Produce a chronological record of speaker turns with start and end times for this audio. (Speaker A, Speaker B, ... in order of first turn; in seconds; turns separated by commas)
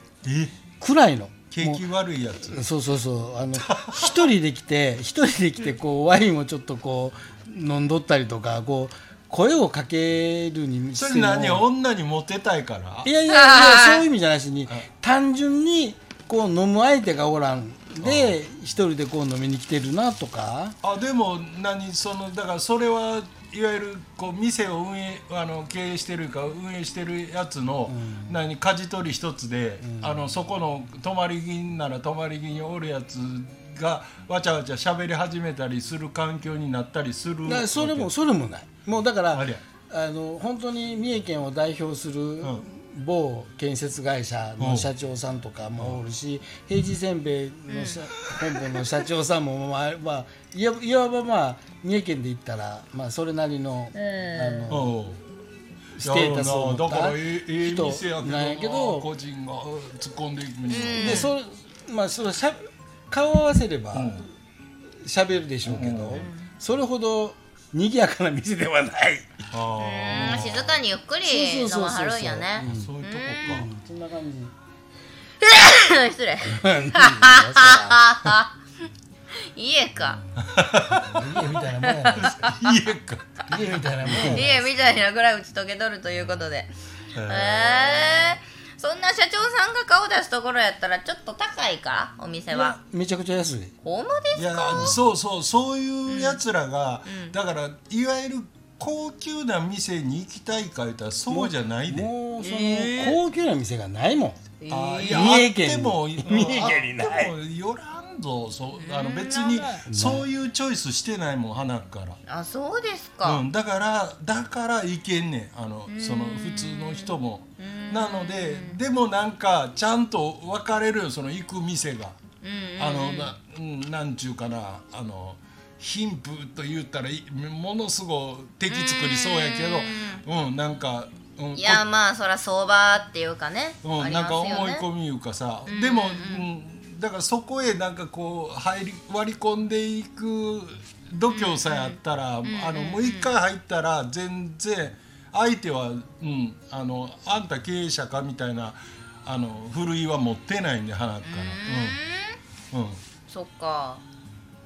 Speaker A: 0.2-0.6, Speaker B: 0.8-1.8, Speaker A: 1.5-2.6, Speaker B: 2.4-11.7, Speaker A: 3.6-4.2, Speaker A: 10.9-13.1, Speaker B: 13.0-20.8, Speaker C: 13.3-14.0, Speaker A: 18.0-18.4, Speaker A: 20.8-38.1, Speaker B: 27.9-28.4, Speaker B: 29.8-30.3, Speaker B: 37.4-55.0, Speaker A: 39.3-39.6, Speaker A: 44.6-44.9, Speaker C: 47.7-48.0, Speaker C: 53.9-54.7, Speaker A: 54.7-55.2, Speaker B: 56.0-59.1, Speaker A: 56.0-61.3, Speaker C: 60.7-61.3, Speaker B: 60.9-64.3, Speaker A: 63.9-64.3, Speaker B: 64.9-69.4, Speaker A: 65.6-66.3, Speaker C: 66.1-66.5, Speaker A: 69.5-70.8, Speaker C: 69.8-73.6, Speaker B: 71.2-72.9, Speaker A: 72.6-73.7, Speaker B: 73.4-74.5, Speaker C: 75.4-78.5, Speaker B: 76.4-78.3, Speaker C: 79.5-80.2, Speaker A: 80.4-81.5, Speaker B: 80.8-82.5, Speaker C: 81.8-82.8, Speaker A: 82.1-84.4, Speaker B: 83.5-84.8, Speaker C: 84.1-92.8, Speaker A: 87.1-88.4, Speaker B: 92.5-93.7, Speaker C: 93.8-95.0, Speaker A: 94.3-102.1, Speaker B: 94.7-95.0, Speaker C: 96.1-96.4, Speaker C: 97.1-97.3, Speaker B: 101.3-104.5, Speaker C: 102.4-103.2, Speaker C: 104.6-105.3, Speaker A: 104.7-112.2, Speaker B: 105.1-107.3, Speaker C: 108.8-109.8, Speaker B: 109.9-110.3, Speaker C: 112.3-113.4, Speaker A: 113.2-122.2, Speaker C: 115.9-118.8, Speaker C: 122.4-123.3, Speaker A: 122.8-131.8, Speaker C: 128.7-130.2, Speaker C: 131.6-134.9, Speaker A: 133.8-152.0, Speaker C: 135.7-136.4, Speaker C: 141.3-143.3, Speaker C: 151.2-152.4, Speaker A: 152.7-153.0, Speaker C: 153.3-154.0